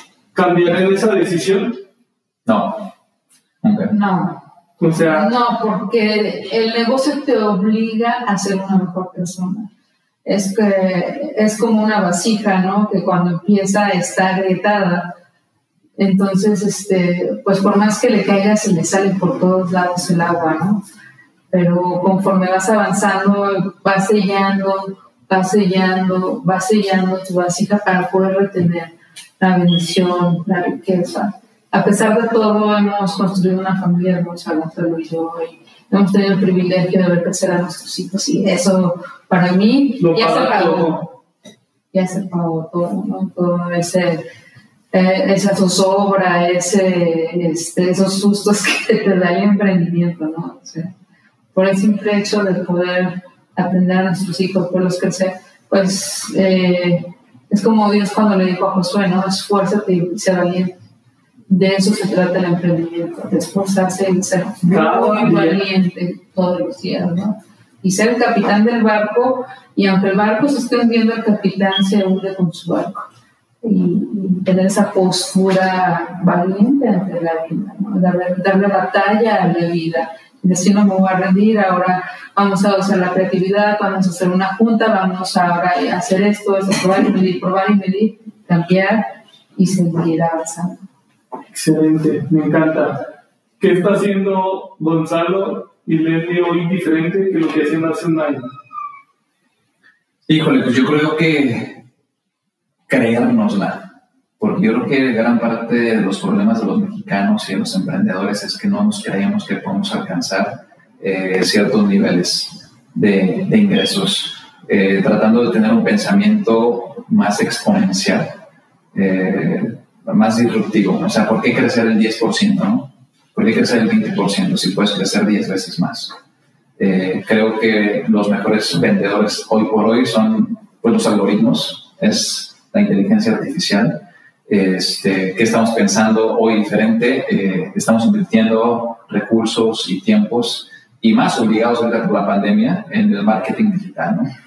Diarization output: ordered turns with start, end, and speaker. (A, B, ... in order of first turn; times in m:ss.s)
0:00.3-0:01.8 A
0:02.5-0:02.9 B
0:03.6-0:03.9 B
0:03.9-0:04.4 C
0:04.8-0:05.3 A
0:04.9-0:09.7 C
0:10.2-0:15.1 C
0:16.0-0:20.8 C
0:21.5-0:41.1 C
0:40.0-0:41.1 A
0:41.9-0:44.2 C
0:44.9-0:50.9 C
0:51.5-1:00.7 C
1:01.5-1:13.1 C
1:04.7-1:05.6 A
1:13.6-1:30.8 C
1:31.5-1:33.0 A
1:33.6-1:38.5 A
1:40.3-1:41.8 B
1:42.9-1:58.4 B
1:58.9-2:06.2 B
2:06.8-2:24.3 B